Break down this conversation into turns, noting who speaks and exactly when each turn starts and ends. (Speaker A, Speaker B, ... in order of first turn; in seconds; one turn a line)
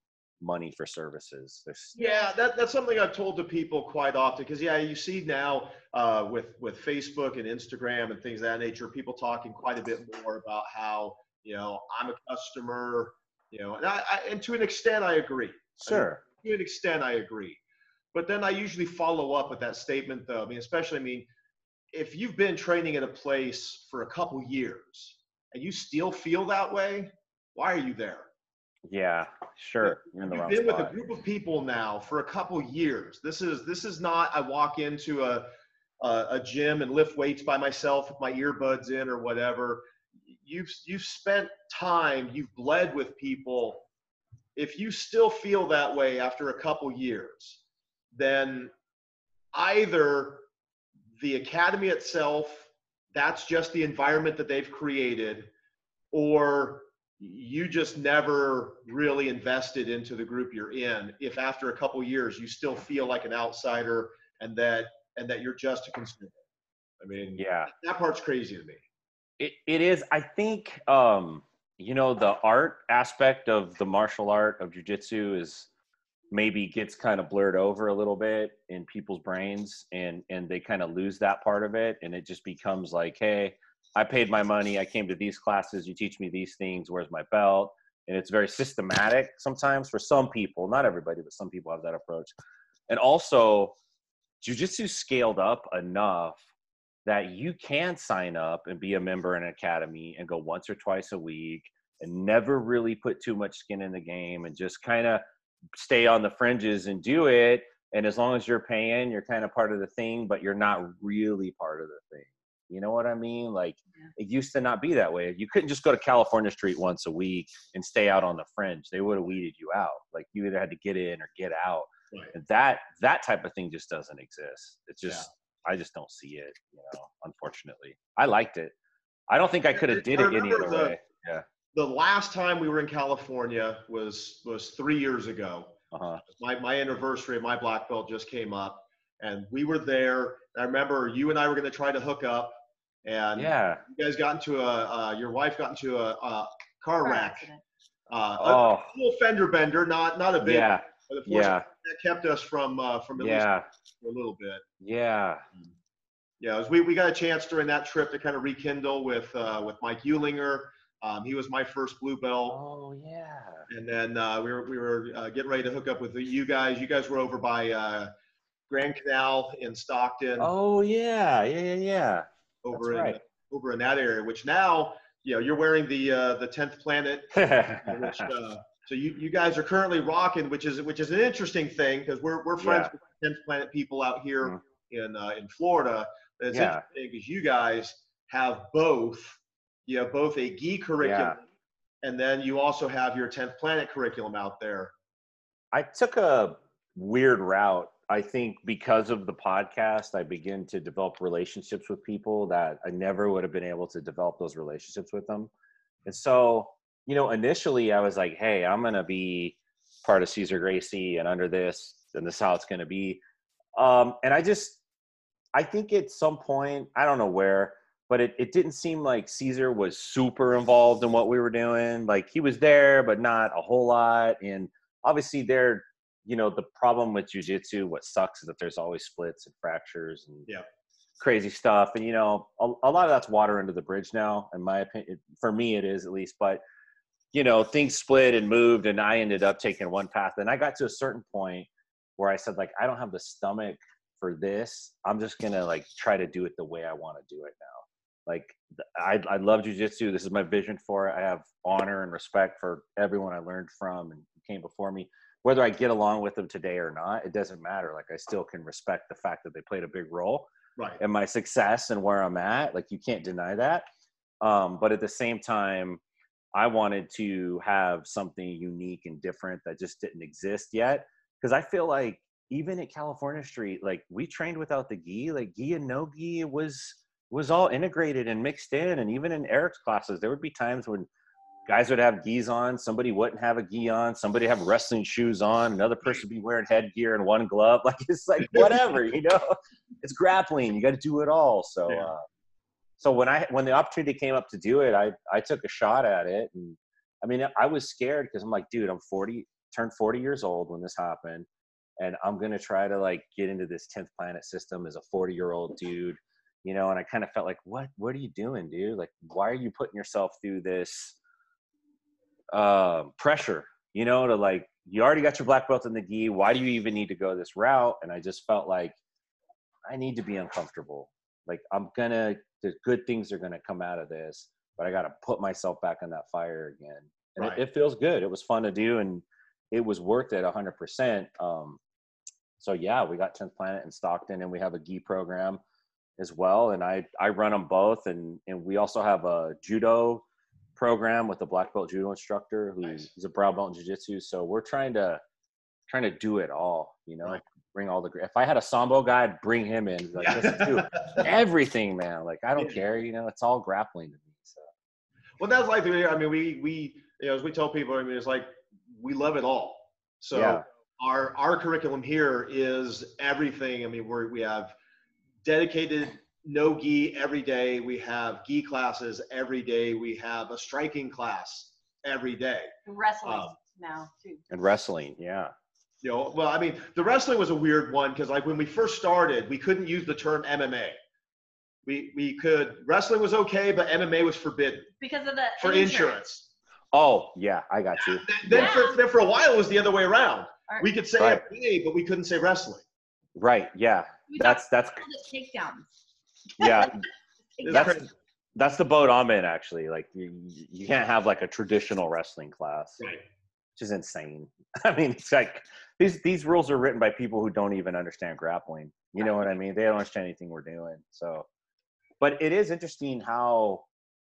Speaker A: 0.4-1.9
Speaker B: 1.9-2.3
Speaker C: 2.0-17.6
Speaker A: 15.8-16.2
Speaker C: 18.1-21.3
Speaker C: 21.9-28.3
Speaker A: 28.9-30.9
Speaker C: 29.8-35.5
Speaker C: 36.0-39.8
Speaker C: 40.3-43.9
Speaker C: 44.6-47.6
Speaker C: 48.1-48.7
Speaker C: 49.5-50.4
Speaker C: 51.2-55.5
Speaker C: 56.1-66.4
Speaker C: 67.0-68.8
Speaker A: 67.4-67.7
Speaker A: 69.4-75.7
Speaker A: 76.3-92.3
Speaker A: 92.9-93.8
Speaker A: 94.4-96.4
Speaker A: 97.1-105.2
Speaker A: 105.7-128.7
Speaker A: 129.3-131.4
Speaker C: 129.7-131.0
Speaker C: 131.7-135.7
Speaker A: 135.9-136.2
Speaker C: 136.3-147.5
Speaker A: 143.3-143.8
Speaker B: 147.0-147.6
Speaker C: 148.1-153.5
Speaker A: 148.4-148.9
Speaker A: 150.4-151.7
Speaker A: 153.2-153.7
Speaker C: 154.0-154.6
Speaker A: 154.8-155.4
Speaker C: 156.4-162.6
Speaker A: 162.5-163.7
Speaker C: 163.7-168.1
Speaker C: 168.7-170.5
Speaker A: 170.4-173.2
Speaker C: 172.6-191.4
Speaker A: 177.3-178.3
Speaker A: 182.6-182.9
Speaker A: 186.5-186.8
Speaker A: 191.0-191.4
Speaker C: 192.0-194.9
Speaker A: 195.7-205.5
Speaker A: 206.1-213.2
Speaker A: 213.8-214.8
Speaker A: 215.5-230.5
Speaker A: 231.2-236.6
Speaker A: 237.3-260.5
Speaker A: 261.0-263.9
Speaker A: 264.4-266.0
Speaker A: 266.5-281.1
Speaker A: 281.7-292.2
Speaker C: 288.4-288.9
Speaker A: 293.0-301.5
Speaker A: 302.0-311.2
Speaker A: 312.5-319.0
Speaker A: 319.9-331.8
Speaker A: 332.6-335.6
Speaker A: 336.2-340.2
Speaker A: 340.8-345.2
Speaker A: 345.9-354.7
Speaker C: 350.2-351.3
Speaker C: 352.6-352.8
Speaker C: 355.4-364.7
Speaker A: 360.3-360.6
Speaker C: 365.4-373.5
Speaker B: 372.9-374.4
Speaker A: 374.5-375.5
Speaker C: 376.0-381.0
Speaker C: 381.9-384.9
Speaker B: 385.0-386.2
Speaker C: 385.6-386.5
Speaker A: 386.9-388.8
Speaker C: 388.0-392.8
Speaker B: 388.5-389.0
Speaker A: 393.4-395.0
Speaker B: 394.3-395.9
Speaker B: 396.6-396.9
Speaker A: 396.6-397.0
Speaker B: 397.6-397.9
Speaker C: 397.6-398.1
Speaker A: 397.7-403.0
Speaker A: 403.8-411.5
Speaker A: 412.2-413.9